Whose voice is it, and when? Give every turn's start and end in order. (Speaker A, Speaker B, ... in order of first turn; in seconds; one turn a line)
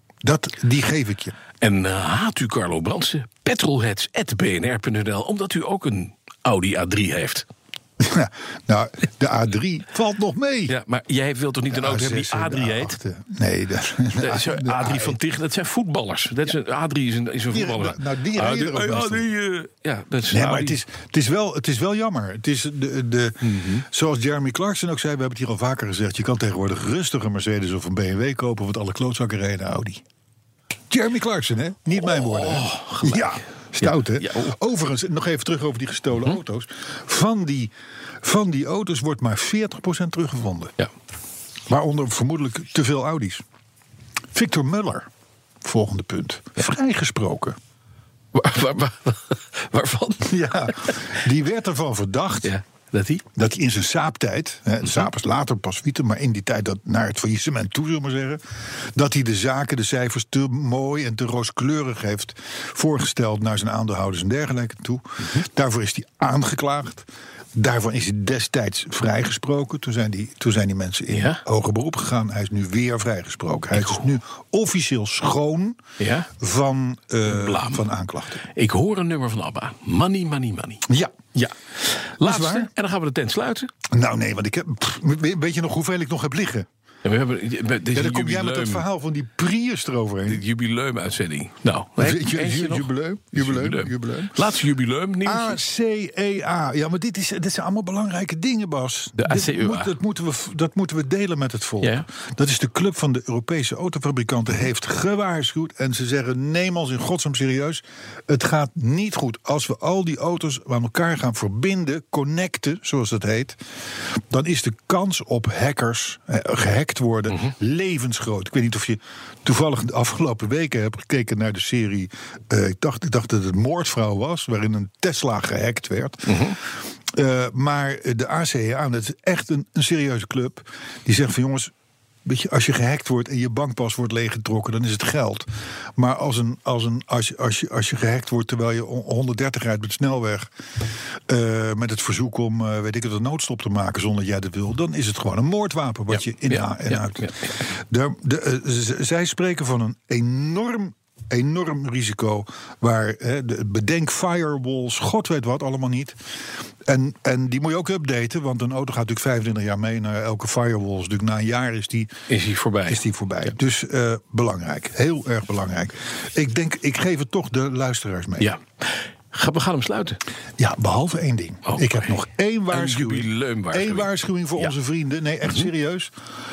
Speaker A: 0.2-1.4
Speaker B: 1.6-7.5
Speaker A: 8.0-10.7
Speaker B: 10.7-13.0
Speaker A: 11.7-15.2
Speaker B: 14.2-20.8
Speaker A: 17.5-19.3
Speaker A: 20.3-30.0
Speaker B: 23.4-23.8
Speaker A: 30.9-40.7
Speaker B: 32.1-34.5
Speaker A: 41.7-43.4
Speaker A: 44.3-45.1
Speaker A: 45.6-47.6
Speaker B: 48.3-51.0
Speaker A: 50.2-52.5
Speaker B: 52.4-53.2
Speaker A: 53.4-75.8
Speaker B: 71.1-71.4
Speaker B: 76.0-76.3
Speaker A: 76.4-78.4
Speaker B: 77.3-77.8
Speaker B: 78.5-83.7
Speaker A: 80.9-81.2
Speaker A: 82.2-82.7
Speaker A: 83.9-86.7
Speaker B: 87.0-88.8
Speaker A: 87.9-90.4
Speaker B: 90.2-95.6
Speaker A: 92.0-94.5
Speaker A: 95.2-126.6
Speaker B: 99.2-99.9
Speaker B: 101.8-102.1
Speaker B: 126.2-126.6
Speaker A: 127.1-131.7
Speaker A: 132.2-140.5
Speaker A: 141.3-156.2
Speaker B: 146.1-147.5
Speaker A: 156.9-162.1
Speaker B: 162.3-163.0
Speaker A: 162.9-168.5
Speaker B: 168.4-170.2
Speaker A: 170.6-176.1
Speaker B: 171.7-172.2
Speaker B: 172.7-174.7